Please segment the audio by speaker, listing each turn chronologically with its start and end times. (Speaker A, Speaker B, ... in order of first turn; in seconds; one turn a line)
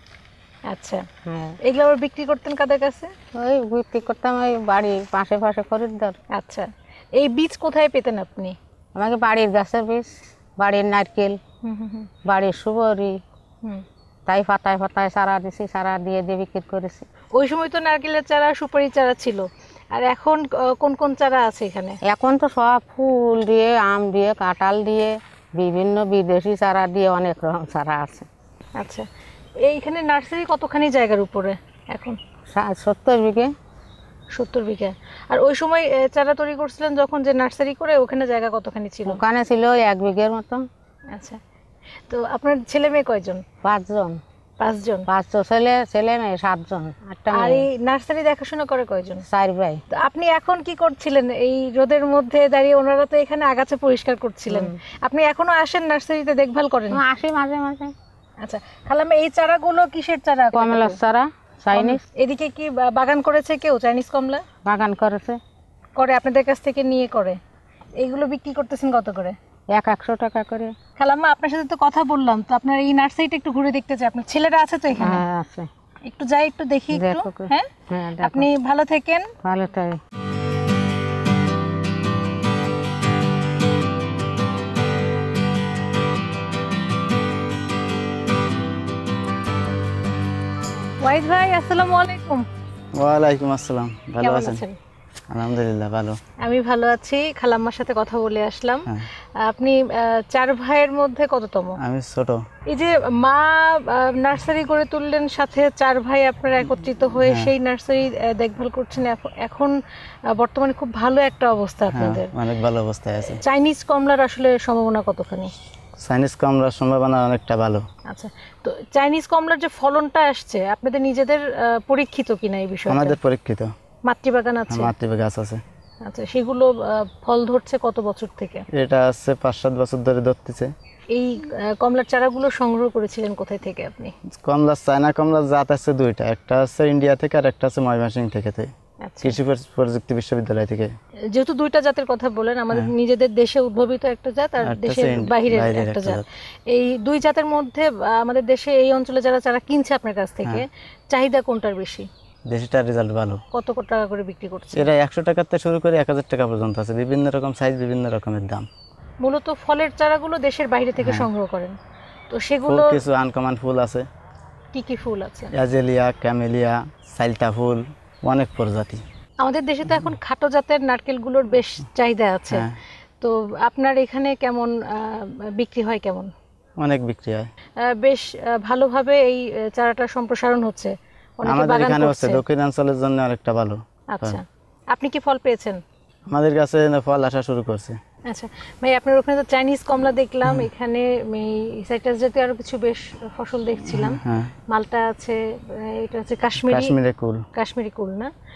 Speaker A: 0.7-1.0
Speaker B: 1.2-1.6
Speaker A: 1.6-3.1
Speaker B: 3.3-6.2
Speaker A: 6.3-8.6
Speaker B: 8.9-11.4
Speaker A: 11.6-12.1
Speaker B: 12.3-13.2
Speaker B: 14.3-17.1
Speaker A: 17.4-22.0
Speaker B: 22.1-28.3
Speaker A: 28.8-29.0
Speaker A: 29.6-32.2
Speaker B: 32.5-33.5
Speaker A: 34.3-39.2
Speaker B: 39.0-40.6
Speaker A: 41.1-41.4
Speaker A: 42.1-43.4
Speaker B: 43.6-44.2
Speaker A: 44.6-45.1
Speaker B: 45.1-47.6
Speaker A: 47.3-49.2
Speaker B: 49.3-49.8
Speaker A: 49.9-57.0
Speaker B: 54.5-54.8
Speaker B: 56.9-57.9
Speaker A: 58.4-61.0
Speaker B: 60.5-62.0
Speaker A: 61.7-64.4
Speaker B: 64.6-65.4
Speaker A: 66.0-67.4
Speaker A: 68.0-69.3
Speaker B: 69.7-70.7
Speaker A: 71.0-75.2
Speaker B: 75.0-75.7
Speaker A: 76.0-77.7
Speaker B: 76.9-78.5
Speaker A: 78.2-79.3
Speaker B: 79.4-80.0
Speaker A: 91.0-92.4
Speaker C: 93.0-94.6
Speaker A: 94.2-94.8
Speaker C: 95.3-96.1
Speaker A: 96.4-101.8
Speaker C: 101.8-102.4
Speaker A: 102.7-109.7
Speaker C: 107.2-107.5
Speaker A: 110.3-112.3
Speaker C: 111.9-113.4
Speaker A: 113.3-115.5
Speaker C: 116.0-117.8
Speaker A: 118.1-123.2
Speaker C: 122.9-123.7
Speaker A: 124.0-124.9
Speaker C: 124.7-125.6
Speaker A: 126.0-128.6
Speaker C: 128.7-130.7
Speaker A: 131.1-134.1
Speaker C: 134.3-140.9
Speaker A: 139.0-139.4
Speaker A: 141.3-152.1
Speaker C: 144.6-146.2
Speaker C: 152.5-153.4
Speaker A: 153.5-154.9
Speaker C: 154.8-158.7
Speaker A: 159.2-161.8
Speaker C: 161.0-161.3
Speaker A: 162.3-163.0
Speaker C: 162.7-164.0
Speaker A: 164.7-165.5
Speaker C: 165.6-169.0
Speaker A: 169.4-172.7
Speaker C: 172.5-172.8
Speaker A: 173.2-176.3
Speaker C: 176.8-177.5
Speaker A: 177.8-182.4
Speaker C: 181.4-184.4
Speaker A: 184.1-185.8
Speaker C: 186.3-188.0
Speaker A: 188.3-194.2
Speaker C: 193.9-194.5
Speaker A: 194.7-196.9
Speaker C: 196.7-197.4
Speaker A: 197.5-198.3